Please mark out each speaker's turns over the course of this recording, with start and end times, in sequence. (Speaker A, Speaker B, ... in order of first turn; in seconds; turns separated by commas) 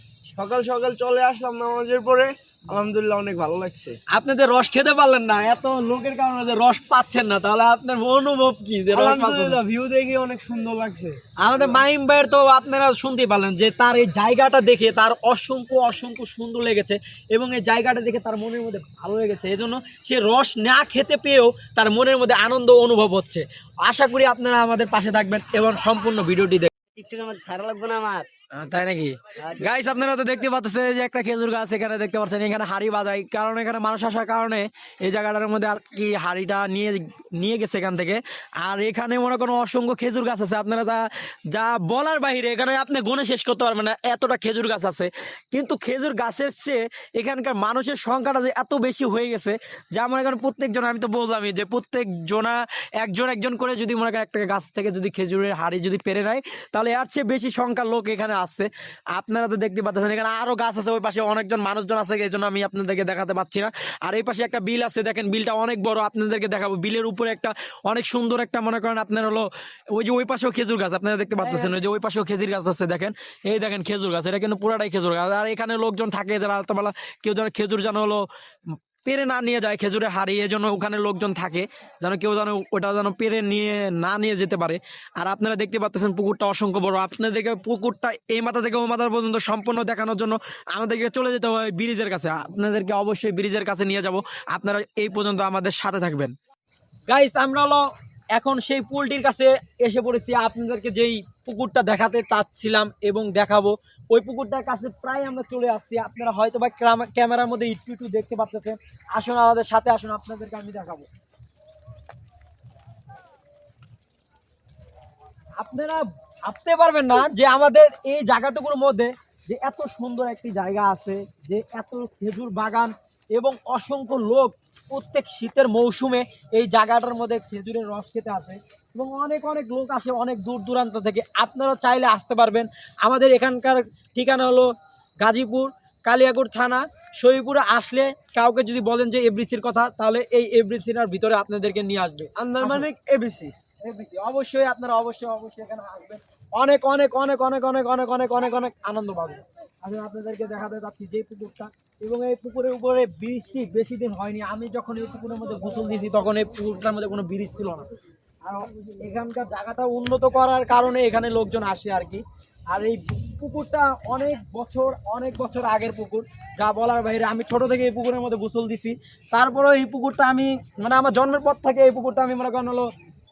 Speaker A: 0.3-2.0, Speaker B: 0.4-4.0, Speaker C: 4.1-9.6, Speaker B: 8.9-11.2, Speaker C: 11.4-26.7, Speaker A: 26.9-28.3, Speaker C: 28.5-78.2, Speaker A: 71.4-71.7, Speaker C: 79.0-96.3, Speaker C: 97.1-97.8, Speaker C: 98.3-111.1, Speaker C: 115.6-134.7, Speaker C: 135.2-142.9, Speaker B: 142.4-143.5, Speaker C: 143.8-157.9, Speaker C: 158.4-172.9